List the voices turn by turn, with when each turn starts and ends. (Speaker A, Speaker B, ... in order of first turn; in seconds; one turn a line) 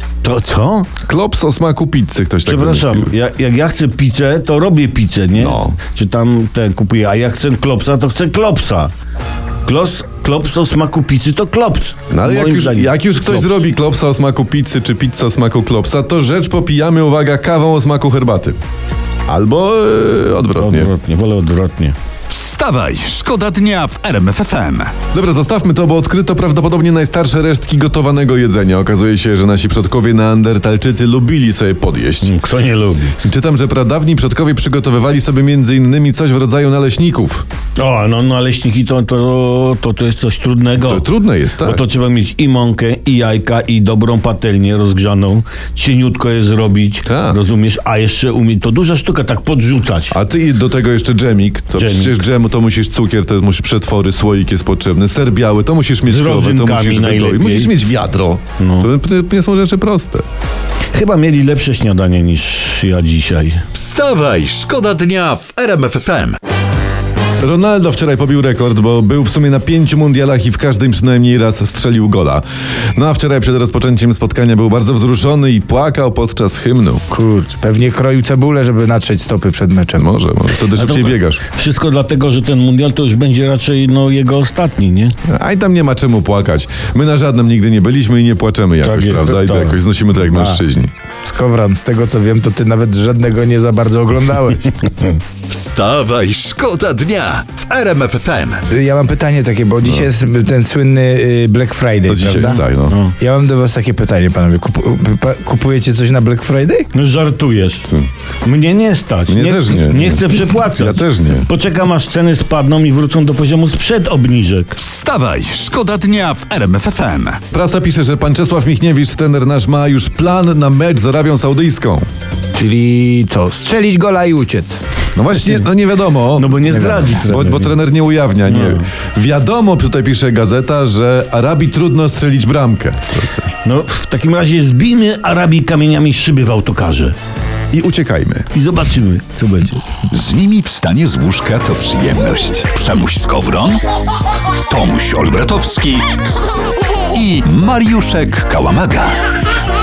Speaker A: 0.2-0.9
Speaker B: 1.0-3.1
Speaker A: 2.4-8.9
Speaker B: 5.3-5.8
Speaker A: 9.6-13.5
Speaker B: 12.1-18.6
Speaker B: 19.3-20.9
Speaker A: 20.6-21.9
Speaker C: 22.3-24.9
Speaker B: 25.1-32.3
Speaker A: 32.2-33.1
Speaker B: 33.2-37.4
Speaker A: 37.8-50.1
Speaker B: 40.8-41.8
Speaker B: 47.0-47.4
Speaker B: 50.1-60.2
Speaker A: 51.7-52.1
Speaker A: 56.0-57.7
Speaker A: 58.6-58.9
Speaker A: 60.9-63.6
Speaker C: 63.7-66.4
Speaker B: 67.4-77.0
Speaker D: 77.1-80.1
Speaker B: 80.0-81.4
Speaker A: 80.7-85.1
Speaker B: 85.2-90.9
Speaker A: 88.8-89.8
Speaker D: 91.2-94.7
Speaker C: 95.5-98.6
Speaker D: 98.7-102.6
Speaker B: 102.1-103.0
Speaker A: 102.9-103.2
Speaker D: 103.2-106.9
Speaker A: 106.9-107.9
Speaker A: 108.4-114.8
Speaker B: 109.3-111.5
Speaker C: 114.8-117.4
Speaker B: 117.5-122.0
Speaker D: 122.5-124.8
Speaker B: 125.2-133.5
Speaker A: 126.3-127.7
Speaker D: 126.7-127.1
Speaker A: 128.4-128.9
Speaker A: 133.6-137.2
Speaker B: 137.7-138.5
Speaker A: 138.5-139.8
Speaker C: 140.1-143.8
Speaker C: 144.7-146.1
Speaker C: 147.1-149.2